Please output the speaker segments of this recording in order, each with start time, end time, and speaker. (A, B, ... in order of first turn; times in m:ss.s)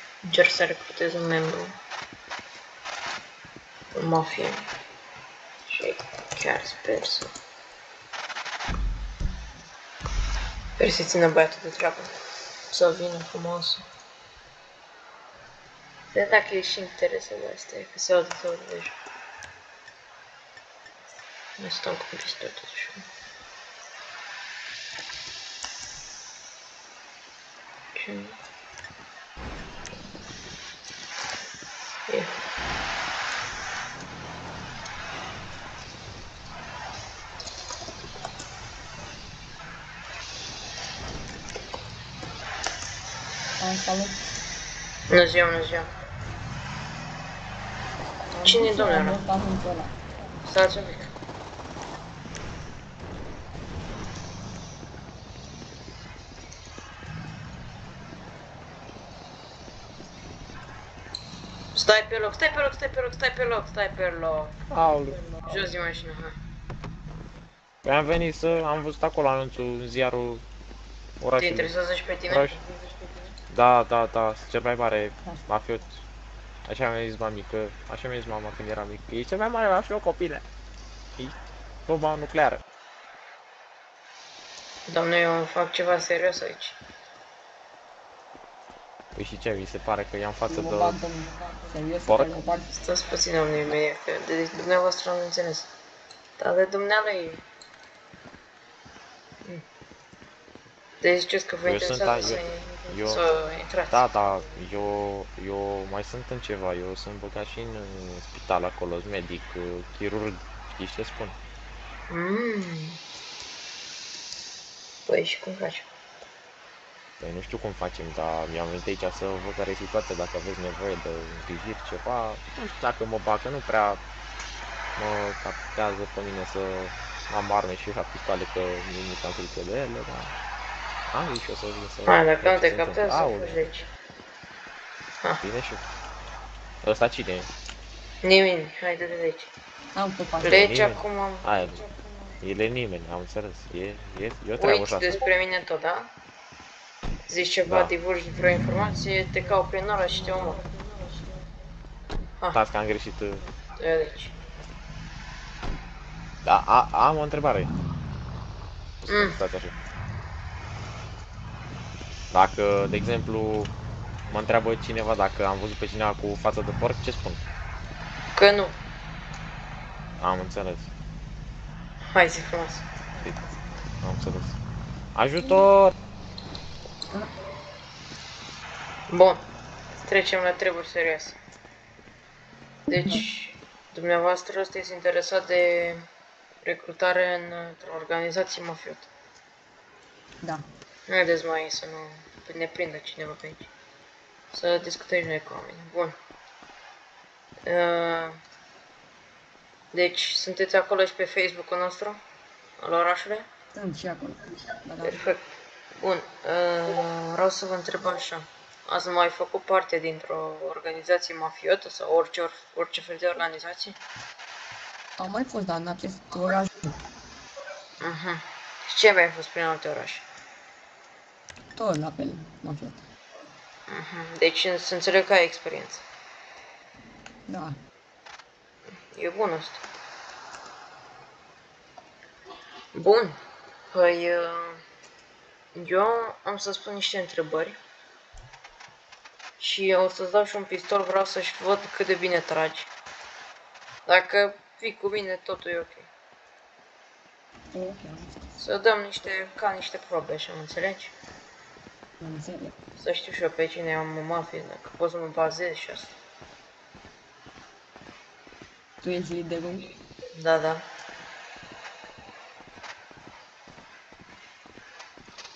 0:00.2-0:01.7 A
0:03.9-0:04.6 A
0:05.7-0:07.3 A
0:10.8-0:12.1 A
0:12.7-0:13.8 A
0:16.1-0:19.0 A
0:21.6-0:23.0 A
0:28.0-0:28.3 A
0:32.1-0:32.3 A
0:43.6-0:44.2 B
0:45.1-0:45.9 A
0:48.3-0:50.0 B
0:48.4-0:49.2 A
0:50.4-0:51.1 A
1:01.7-1:04.8 A
1:04.7-1:05.2 C
1:05.4-1:06.4 A
1:07.8-1:10.4 C
1:11.2-1:11.7 C
1:11.4-1:13.3 A
1:12.3-1:12.6 C
1:13.5-1:16.0 C
1:16.6-1:20.4 C
1:21.2-1:22.6 C
1:24.9-1:26.8 A
1:29.2-1:31.0 C
1:30.5-1:32.7 B
1:32.0-1:32.4 C
1:32.7-1:35.7 A
1:36.4-1:37.4 A
1:41.0-1:44.5 A
1:41.6-1:43.2 C
1:43.9-1:51.4 C
1:52.1-1:53.0 A
1:55.1-1:55.8 A
1:57.2-2:04.0 C
2:05.0-2:10.4 C
2:11.1-2:13.6 C
2:12.0-2:13.9 A
2:15.4-2:15.8 C
2:16.8-2:17.5 C
2:18.2-2:19.5 A
2:19.9-2:20.7 B
2:20.4-2:22.1 A
2:20.4-2:21.8 C
2:22.4-2:25.2 C
2:24.6-2:26.1 A
2:27.3-2:30.6 A
2:27.6-2:27.9 C
2:32.5-2:33.4 C
2:33.8-2:34.3 A
2:36.4-2:37.7 C
2:39.0-2:39.7 C
2:39.0-2:39.4 A
2:42.3-2:43.7 C
2:44.3-2:47.4 C
2:48.3-2:48.8 A
2:50.2-2:50.9 C
2:52.1-2:52.8 A
2:53.2-2:53.8 B
2:54.0-2:54.6 C
2:55.1-2:55.9 C
2:59.1-2:59.4 A
3:00.0-3:01.4 A
3:02.9-3:06.0 A
3:06.6-3:09.1 A
3:11.1-3:13.7 A
3:14.5-3:16.1 A
3:17.6-3:18.4 A
3:19.9-3:22.2 A
3:22.8-3:23.4 A
3:23.7-3:25.2 B
3:25.0-3:25.4 A
3:26.0-3:34.0 A
3:35.2-3:36.9 B
3:38.0-3:40.2 A
3:41.8-3:43.0 B
3:43.9-3:46.0 A
3:47.5-3:47.7 B
3:49.1-3:49.8 A
3:52.9-3:53.4 A
3:53.9-3:54.8 A
3:55.7-3:57.8 A
3:59.6-4:02.9 A
4:04.0-4:06.1 A
4:07.7-4:08.5 B
4:08.6-4:11.1 A
4:12.2-4:12.7 B
4:13.0-4:16.1 A
4:19.0-4:19.9 B
4:20.3-4:20.8 A